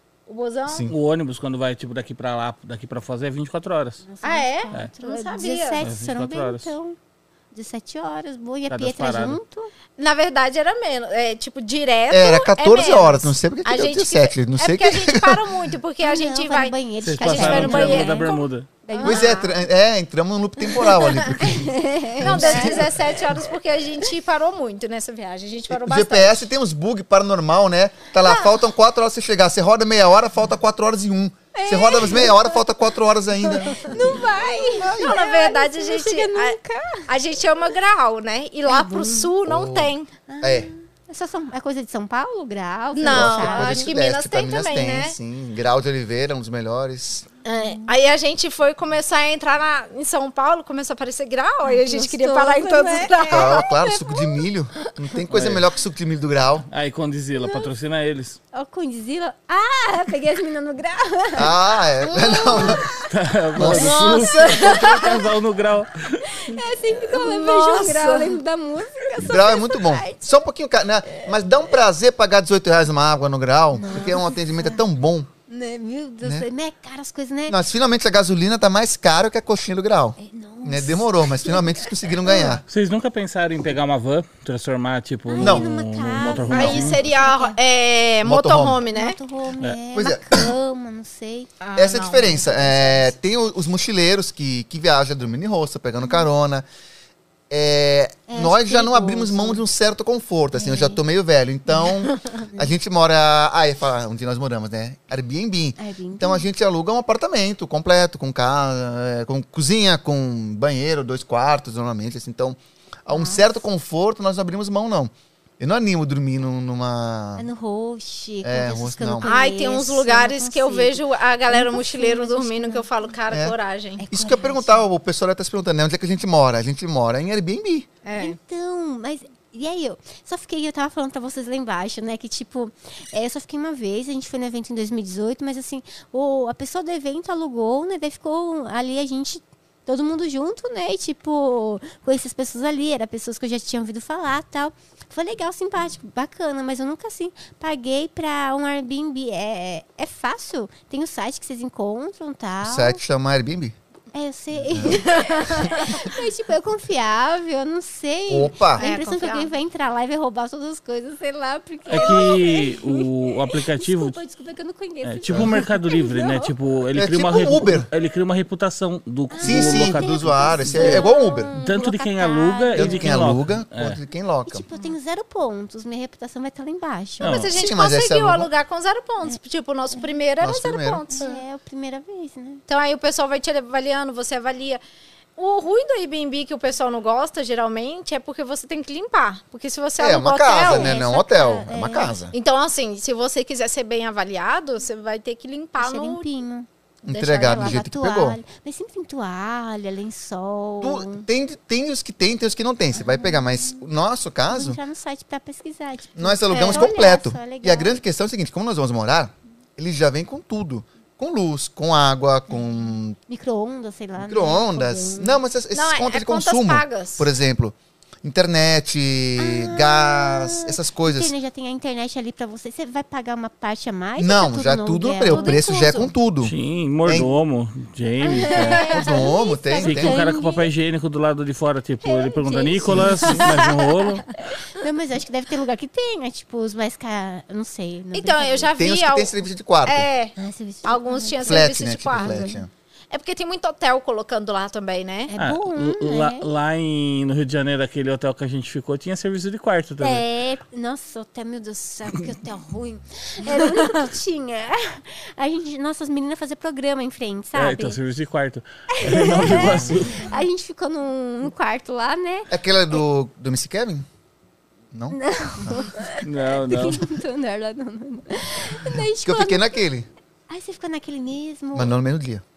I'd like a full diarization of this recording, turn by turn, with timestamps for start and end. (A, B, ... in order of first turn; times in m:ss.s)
0:00.3-0:00.9 A
0:00.7-0:00.9 B
0:00.9-0:04.0 C
0:04.0-0:07.0 D
0:04.2-0:05.8 A
0:05.8-0:06.7 C
0:07.5-0:09.7 D
0:08.7-0:09.4 C
0:10.0-0:19.5 A
0:12.1-0:15.5 B
0:16.0-0:18.3 D
0:17.0-0:18.7 C
0:18.8-0:19.4 D
0:19.0-0:23.0 B
0:21.0-0:21.3 A
0:21.4-0:22.9 D
0:22.2-0:26.4 A
0:25.7-0:34.1 B
0:28.2-0:28.6 A
0:31.5-0:32.6 D
0:33.5-0:37.1 D
0:33.5-0:40.1 A
0:34.7-0:35.2 B
0:38.6-0:39.3 D
0:39.4-0:40.7 B
0:40.3-0:43.9 D
0:42.9-0:45.2 A
0:43.0-0:47.3 B
0:47.4-0:54.3 A
0:47.5-0:47.9 D
0:51.6-0:53.7 D
0:53.3-0:56.6 B
0:55.3-0:55.6 C
0:56.7-0:58.4 C
0:57.4-0:57.7 D
0:58.5-1:03.1 D
1:01.3-1:02.9 B
1:03.1-1:06.4 C
1:03.6-1:04.2 B
1:03.6-1:04.9 D
1:03.6-1:05.3 A
1:06.2-1:10.4 D
1:07.0-1:08.4 A
1:09.2-1:15.3 B
1:13.7-1:14.8 D
1:15.5-1:17.6 D
1:17.5-1:22.6 B
1:20.2-1:22.6 D
1:22.7-1:27.0 C
1:25.2-1:27.6 D
1:25.4-1:25.6 B
1:26.4-1:29.2 A
1:28.2-1:28.8 B
1:28.9-1:31.5 D
1:29.9-1:30.5 B
1:31.6-1:32.4 A
1:31.8-1:36.6 B
1:32.4-1:33.1 D
1:37.5-1:57.4 B
1:38.3-1:39.6 D
1:40.5-1:41.0 D
1:45.8-1:46.5 D
1:53.1-1:53.5 D
1:57.4-2:03.1 D
1:58.4-1:59.3 B
1:59.2-2:04.0 A
2:04.0-2:04.8 D
2:04.1-2:07.9 B
2:08.0-2:08.4 A
2:08.1-2:33.0 D
2:32.6-2:33.8 B
2:34.1-2:46.5 D
2:34.5-2:35.0 B
2:35.0-2:36.0 A
2:38.3-2:38.9 B
2:38.8-2:39.5 A
2:41.9-2:44.2 C
2:42.0-2:42.2 A
2:45.0-2:51.1 C
2:46.9-2:47.9 B
2:49.3-2:53.3 D
2:49.4-2:51.5 B
2:51.6-2:54.0 C
2:52.7-2:54.6 B
2:54.4-2:57.4 D
2:57.2-2:57.5 C
2:57.2-3:01.3 A
2:57.5-2:58.5 B
3:00.4-3:01.4 B
3:01.1-3:02.6 D
3:02.7-3:04.8 A
3:05.4-3:11.1 A
3:10.0-3:12.3 B
3:10.6-3:12.1 D
3:12.3-3:16.2 A
3:15.8-3:21.2 D
3:17.0-3:18.4 B
3:17.5-3:17.8 A
3:20.8-3:24.8 B
3:22.9-3:23.8 D
3:24.5-3:28.0 D
3:26.2-3:33.2 B
3:26.5-3:26.9 A
3:33.3-3:35.4 D
3:34.2-3:41.3 B
3:35.7-3:37.3 A
3:39.4-3:45.6 D
3:44.2-3:46.5 B
3:45.2-3:46.1 A
3:46.4-3:48.9 C
3:47.0-3:47.3 B
3:48.2-3:50.7 D
3:48.5-3:49.2 A
3:48.8-3:50.2 B
3:49.8-3:54.4 C
3:52.0-3:53.4 D
3:52.8-3:53.5 B
3:53.4-3:53.7 A
3:54.5-3:58.7 D
3:58.1-3:59.3 A
3:58.8-4:00.1 B
3:59.8-4:02.5 A
4:00.4-4:02.6 D
4:01.4-4:02.7 B
4:03.1-4:05.3 A
4:05.3-4:06.5 D
4:05.4-4:10.2 C
4:10.0-4:18.0 D
4:17.5-4:20.3 C
4:18.9-4:22.5 D
4:19.5-4:20.0 B
4:22.5-4:24.0 B
4:24.9-4:25.9 B
4:25.1-4:29.8 D
4:26.2-4:27.1 C
4:29.2-4:30.1 B
4:30.5-4:31.9 D
4:31.7-4:32.4 B